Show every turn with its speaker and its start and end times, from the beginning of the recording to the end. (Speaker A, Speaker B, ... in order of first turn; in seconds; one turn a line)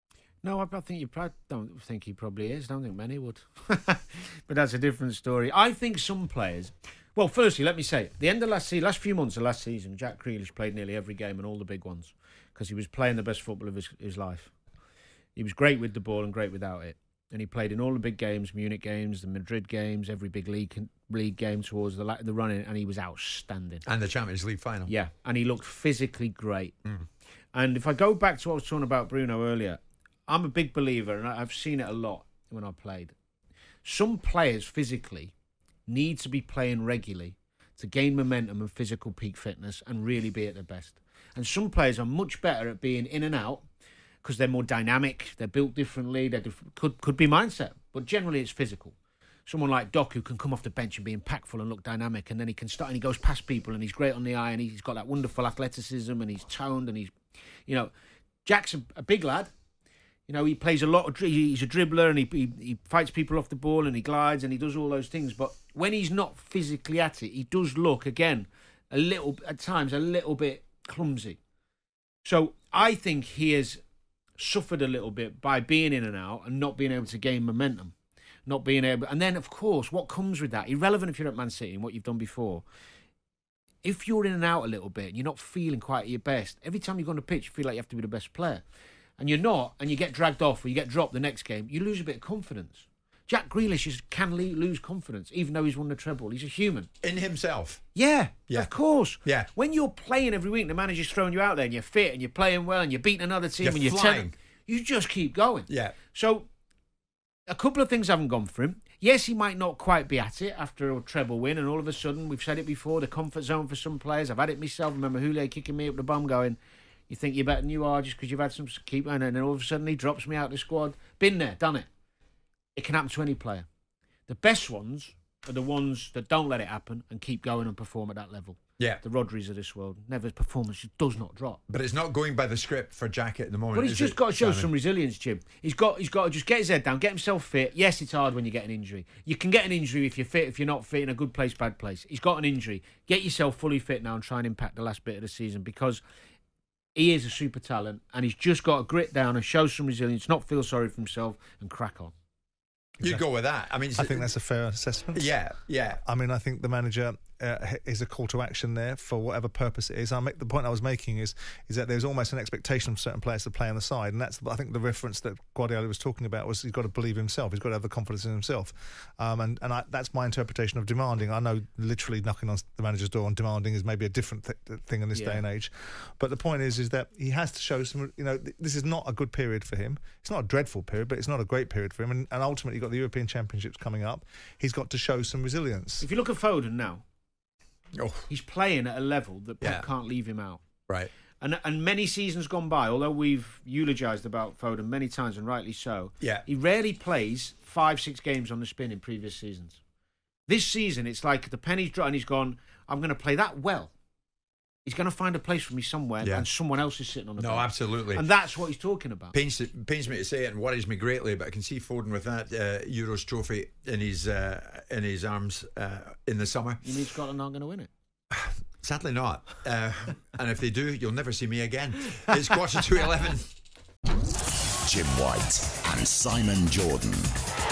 Speaker A: 0.4-14.5
Speaker A: 15.3-23.8
Speaker B: 23.8-24.9
Speaker A: 24.9-26.8
Speaker A: 27.5-33.1
Speaker A: 33.8-35.3
Speaker A: 35.9-43.7
Speaker A: 44.2-48.9
Speaker A: 49.5-57.1
Speaker A: 57.6-57.9
Speaker A: 58.4-59.5
Speaker A: 60.3-71.4
Speaker A: 72.2-73.8
Speaker A: 74.4-77.9
Speaker A: 78.5-82.6
Speaker A: 83.8-88.6
Speaker A: 89.2-96.9
Speaker B: 97.0-97.8
Speaker A: 97.9-106.5
Speaker B: 103.6-104.3
Speaker B: 105.7-106.0
Speaker A: 107.5-121.9
Speaker A: 122.7-123.7
Speaker A: 124.3-131.6
Speaker B: 131.7-134.7
Speaker A: 133.7-146.0
Speaker A: 146.9-152.1
Speaker B: 153.0-154.2
Speaker C: 154.0-155.4
Speaker B: 155.1-156.0
Speaker C: 156.0-186.1
Speaker A: 175.1-175.4
Speaker A: 186.0-187.0
Speaker B: 187.9-188.3
Speaker A: 188.3-190.6
Speaker A: 191.4-199.8
Speaker A: 200.5-203.9
Speaker A: 204.8-209.3
Speaker B: 206.2-206.5
Speaker B: 207.4-208.2
Speaker B: 209.3-216.8
Speaker A: 216.8-217.9
Speaker B: 218.3-223.5
Speaker D: 224.8-227.3